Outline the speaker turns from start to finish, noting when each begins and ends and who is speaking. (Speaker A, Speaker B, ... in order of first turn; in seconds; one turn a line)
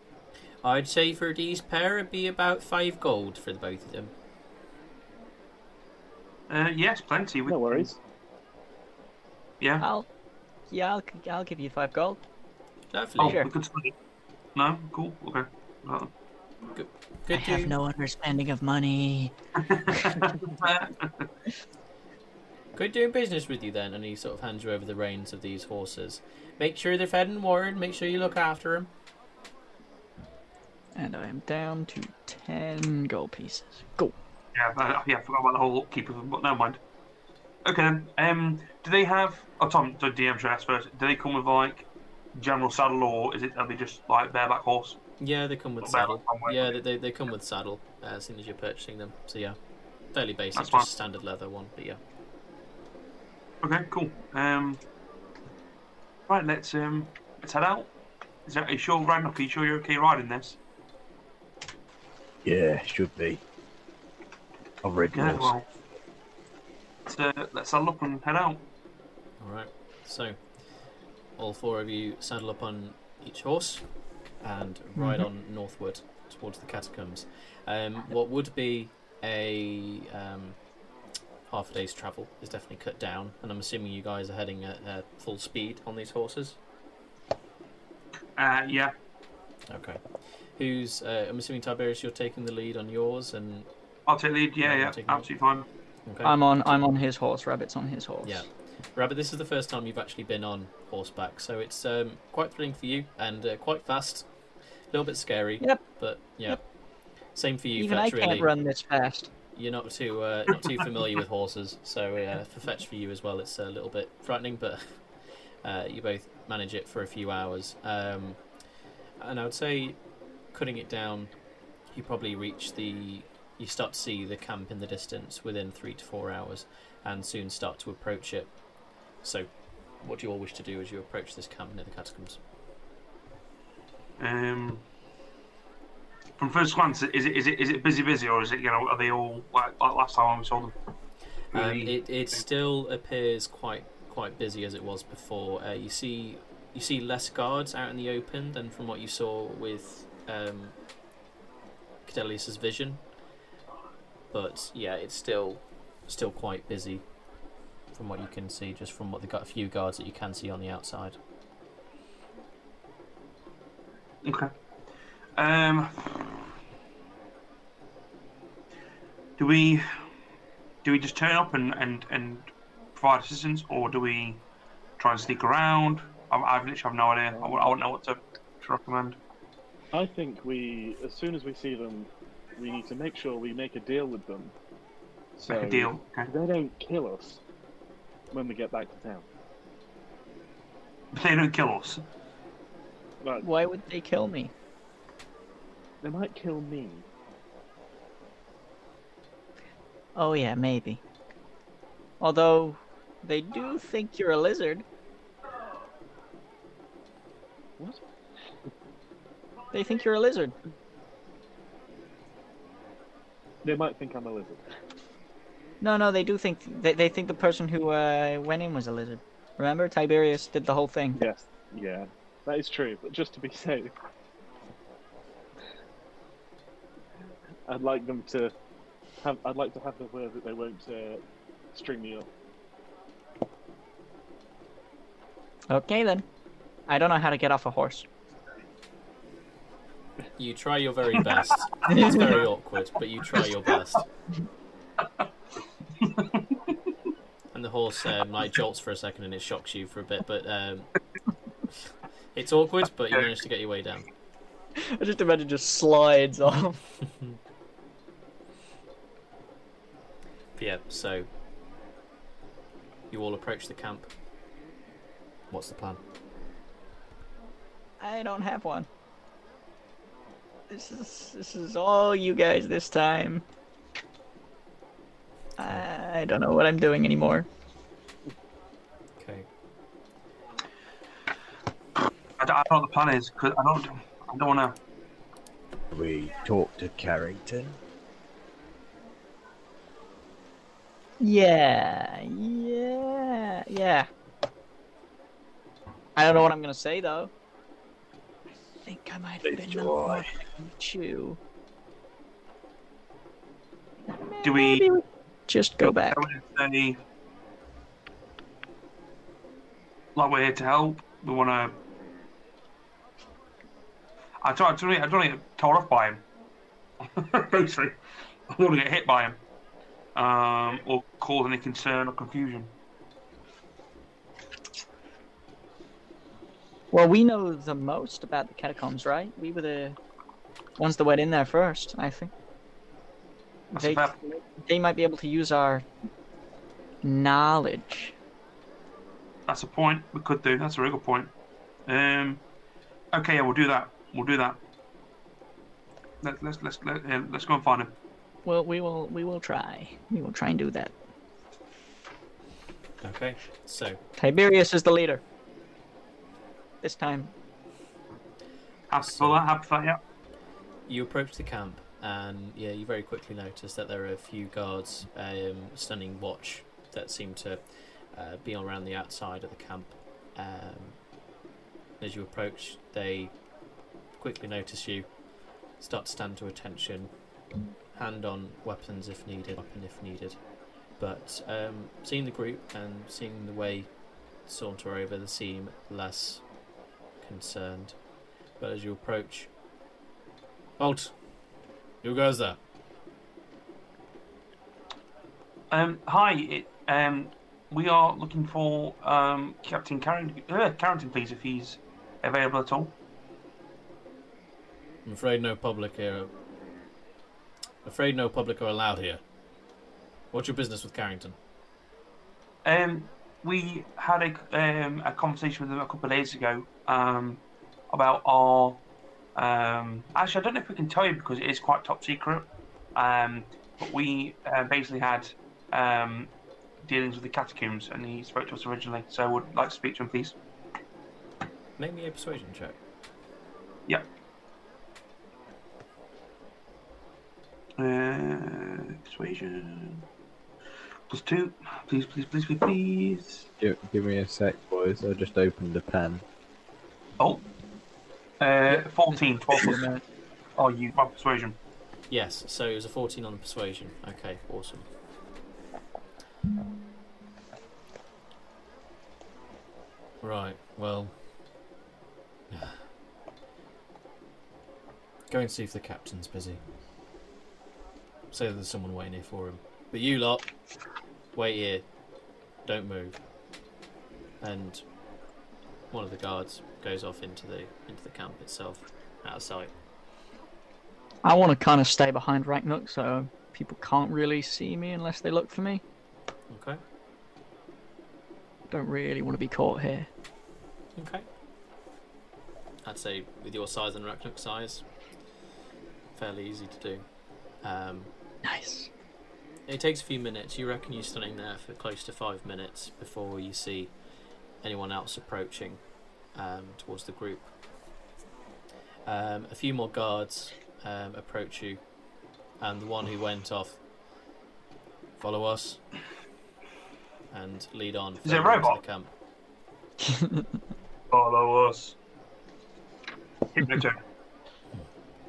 Speaker A: 0.6-4.1
Speaker B: 6.5-7.8
Speaker C: 7.5-8.0
Speaker B: 9.6-9.9
Speaker D: 9.8-10.1
Speaker D: 10.7-12.2
Speaker A: 12.9-13.4
Speaker B: 13.2-13.9
Speaker B: 14.5-16.1
Speaker A: 16.7-17.8
Speaker D: 17.3-19.3
Speaker B: 19.7-21.3
Speaker D: 19.9-20.2
Speaker A: 22.7-28.9
Speaker D: 30.9-34.1
Speaker B: 34.5-36.8
Speaker B: 37.6-45.0
Speaker A: 45.2-49.6
Speaker B: 45.8-46.7
Speaker A: 50.1-52.0
Speaker B: 50.5-50.9
Speaker B: 53.6-54.8
Speaker B: 56.3-57.9
Speaker B: 58.5-60.6
Speaker E: 62.4-63.4
Speaker E: 64.8-65.5
Speaker B: 65.1-65.6
Speaker B: 67.1-68.6
Speaker A: 69.4-70.4
Speaker A: 71.4-73.8
Speaker A: 74.4-80.6
Speaker D: 75.0-75.2
Speaker A: 81.5-86.6
Speaker B: 88.4-88.9
Speaker A: 89.7-93.7
Speaker B: 94.1-95.7
Speaker A: 94.6-95.3
Speaker A: 96.0-96.4
Speaker D: 96.2-98.4
Speaker A: 98.2-104.3
Speaker A: 104.9-106.7
Speaker D: 105.6-106.6
Speaker A: 107.3-108.5
Speaker D: 107.8-109.3
Speaker A: 109.5-115.0
Speaker A: 115.6-118.4
Speaker A: 119.2-121.3
Speaker A: 121.9-128.6
Speaker A: 129.2-129.5
Speaker A: 130.0-132.4
Speaker B: 134.2-134.8
Speaker B: 136.4-140.7
Speaker B: 141.5-142.4
Speaker A: 141.5-150.8
Speaker A: 152.1-153.0
Speaker A: 154.3-157.1
Speaker A: 157.9-161.2
Speaker B: 164.2-164.5
Speaker B: 165.4-166.4
Speaker B: 169.4-169.8
Speaker B: 170.8-174.4
Speaker B: 175.0-179.2
Speaker C: 177.3-177.7
Speaker C: 179.9-184.5
Speaker C: 185.4-187.4
Speaker B: 185.4-186.3
Speaker C: 188.3-189.2
Speaker B: 191.1-192.0
Speaker D: 193.4-194.5
Speaker C: 196.0-197.0
Speaker D: 200.1-201.0
Speaker D: 202.2-204.8
Speaker C: 207.8-208.0
Speaker D: 209.7-210.5
Speaker C: 213.6-214.6
Speaker D: 215.8-221.2
Speaker C: 221.1-223.9
Speaker C: 227.7-228.5
Speaker C: 229.2-231.2
Speaker C: 231.7-232.3
Speaker D: 235.7-236.2
Speaker D: 236.9-238.1
Speaker A: 240.4-244.1
Speaker D: 241.9-242.3
Speaker B: 246.0-246.4
Speaker A: 247.5-250.9
Speaker A: 252.3-254.1
Speaker D: 254.9-256.8
Speaker A: 260.6-261.3
Speaker A: 263.1-264.1
Speaker A: 265.5-266.0
Speaker D: 268.0-268.9
Speaker D: 270.7-273.4
Speaker D: 275.6-277.5
Speaker A: 275.6-275.9
Speaker A: 279.2-279.5
Speaker B: 282.4-284.8
Speaker E: 285.9-287.8
Speaker D: 291.2-294.1
Speaker D: 296.1-297.3
Speaker D: 298.8-301.4
Speaker E: 299.4-300.3
Speaker D: 304.1-306.2
Speaker B: 304.4-304.9
Speaker B: 305.8-307.0
Speaker B: 310.1-311.8
Speaker B: 314.4-316.2
Speaker B: 317.1-318.0
Speaker B: 318.5-319.4
Speaker B: 320.1-322.7
Speaker D: 326.9-330.0
Speaker D: 330.8-332.3
Speaker B: 333.7-334.1
Speaker D: 333.8-335.9
Speaker D: 337.0-338.1
Speaker B: 339.5-341.3
Speaker B: 341.9-342.4
Speaker B: 343.1-344.6
Speaker B: 346.2-347.9
Speaker D: 348.4-350.9
Speaker A: 353.0-354.0
Speaker D: 354.2-355.2
Speaker D: 356.8-357.3
Speaker B: 358.9-360.0
Speaker A: 359.0-359.4
Speaker A: 360.9-371.0
Speaker A: 372.0-373.3
Speaker A: 374.2-375.1
Speaker A: 375.8-377.1
Speaker A: 377.9-380.4
Speaker A: 381.0-383.9
Speaker A: 384.4-386.5
Speaker A: 387.2-388.0
Speaker A: 388.6-389.5
Speaker A: 390.8-391.2
Speaker A: 392.0-392.6
Speaker B: 395.7-402.9
Speaker A: 405.0-406.3
Speaker A: 407.8-409.2
Speaker A: 410.3-411.4
Speaker B: 412.6-418.8
Speaker B: 419.4-426.3
Speaker B: 426.8-430.3
Speaker A: 431.8-432.8
Speaker B: 437.8-440.0
Speaker B: 441.1-443.5
Speaker E: 443.6-446.2
Speaker B: 447.2-447.4
Speaker B: 448.4-449.8
Speaker D: 448.7-450.0
Speaker B: 450.6-451.6
Speaker A: 452.1-454.9
Speaker A: 460.2-461.1
Speaker A: 462.5-462.8
Speaker A: 465.3-466.6
Speaker A: 468.3-470.5
Speaker A: 471.3-471.9
Speaker A: 472.6-473.1
Speaker A: 474.4-474.8
Speaker A: 475.9-479.7
Speaker D: 481.2-485.8
Speaker A: 486.5-486.8
Speaker D: 488.7-490.1
Speaker A: 490.9-491.2
Speaker A: 492.8-494.8
Speaker A: 496.1-497.1
Speaker A: 497.6-498.1
Speaker D: 498.4-498.9
Speaker A: 499.7-503.9
Speaker A: 504.6-507.5
Speaker A: 509.1-511.8
Speaker A: 512.6-513.8
Speaker A: 515.2-515.8
Speaker A: 517.3-519.1
Speaker B: 518.2-518.8
Speaker D: 520.1-520.4
Speaker B: 521.1-522.0
Speaker B: 523.5-524.0